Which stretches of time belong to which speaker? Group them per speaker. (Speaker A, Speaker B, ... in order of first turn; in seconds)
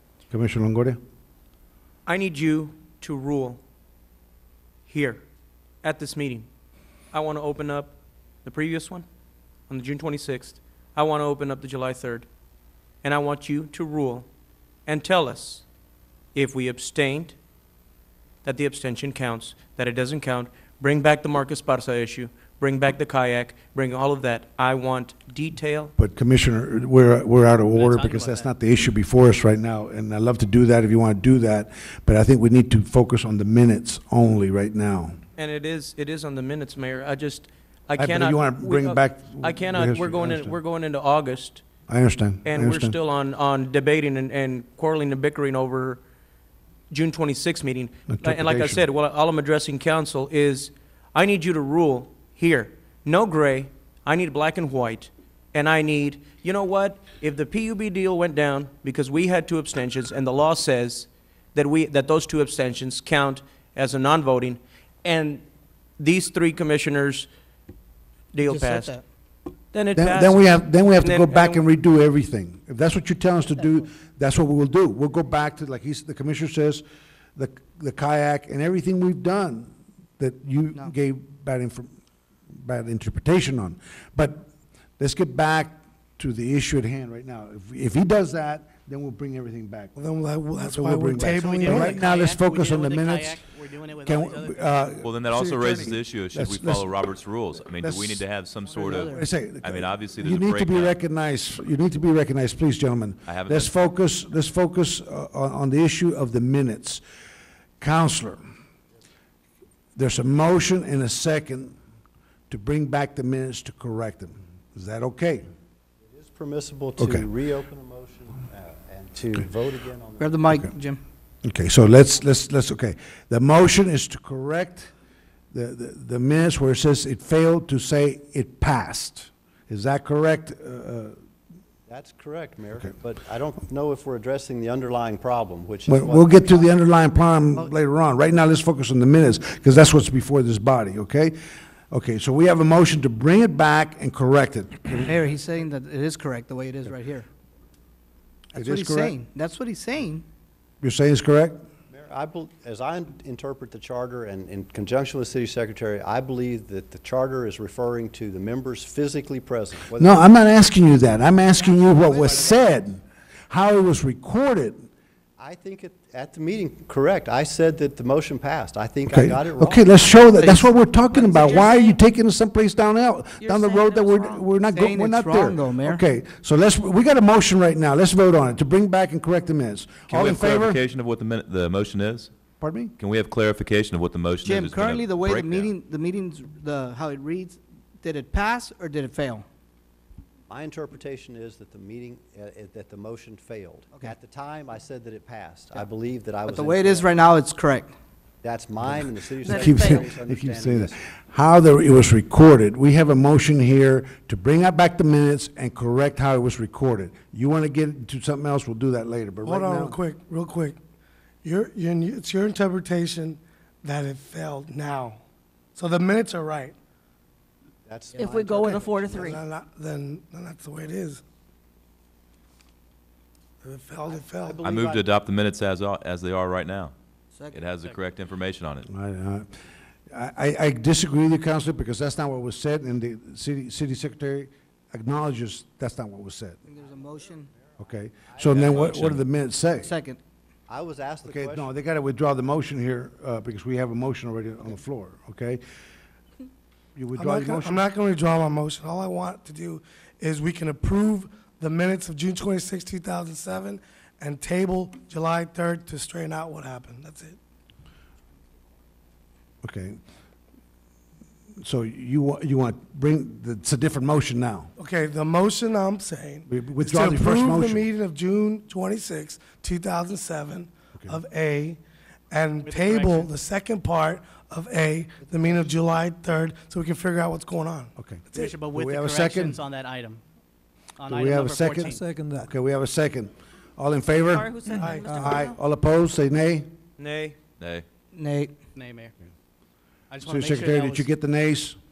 Speaker A: 0.3-1.0, 26.0-35.2, 38.0-40.6, 41.9-43.0, 48.1-48.8, 69.9-76.8, 77.3-81.9, 82.6-89.9, 90.6-93.4, 94.0-96.9, 97.8-98.2, 98.9-107.0, 107.8-108.4, 110.0-111.8, 112.5-115.4, 117.0-117.3, 121.4-124.9, 125.5-131.2, 135.9-141.4, 141.9-145.1, 148.5-149.2, 150.8-151.6, 159.9-164.9, 169.1-180.8, 182.6-182.9, 198.9-210.0, 228.9-229.5, 230.1-236.6, 237.8-239.9, 241.2-245.6, 246.9-247.8, 259.6-260.0, 261.6-264.7, 266.5-267.8, 278.0-279.6, 281.1-284.6, 285.1-286.7, 290.2-291.8
Speaker B: 2.1-3.6, 4.9-5.2, 5.8-6.5, 7.1-9.0, 9.7-12.3, 13.0-14.3, 14.8-15.7, 16.3-17.4, 18.4-25.9, 35.4-41.6, 42.5-46.0, 46.9-65.4, 66.0-67.3, 68.3-69.0, 69.7-71.6, 287.0-287.4
Speaker C: 27.7-28.5, 91.3-95.0, 272.6-273.3, 278.3-280.2, 281.0-282.1, 288.8-289.1, 290.1-291.1
Speaker D: 68.4-69.0, 98.8-99.2, 120.2-121.0, 144.9-147.3, 148.6-150.2, 162.1-162.5, 170.4-170.7, 174.7-176.0, 184.4-189.4, 196.4-197.9, 236.7-237.5, 239.8-240.2, 281.8-282.5, 285.1-285.4, 288.1-288.6
Speaker E: 90.0-92.0, 209.4-210.8, 211.4-215.2, 215.8-216.8, 219.2-221.2, 223.6-224.6, 247.2-257.4, 264.8-271.8, 272.3-278.5, 284.8-285.2
Speaker F: 95.0-101.0, 103.2-103.7, 180.1-182.3, 183.0-185.7, 224.6-226.9, 227.5-228.9, 238.6-239.2, 287.6-287.9
Speaker G: 116.0-120.5, 131.9-136.8, 151.9-160.2, 165.4-170.0, 190.5-197.1, 198.4-201.0, 217.9-219.4, 224.1-225.1, 238.3-239.2, 240.7-241.7
Speaker H: 171.5-171.9, 173.5-174.1, 199.4-200.0, 218.2-219.4, 284.3-285.6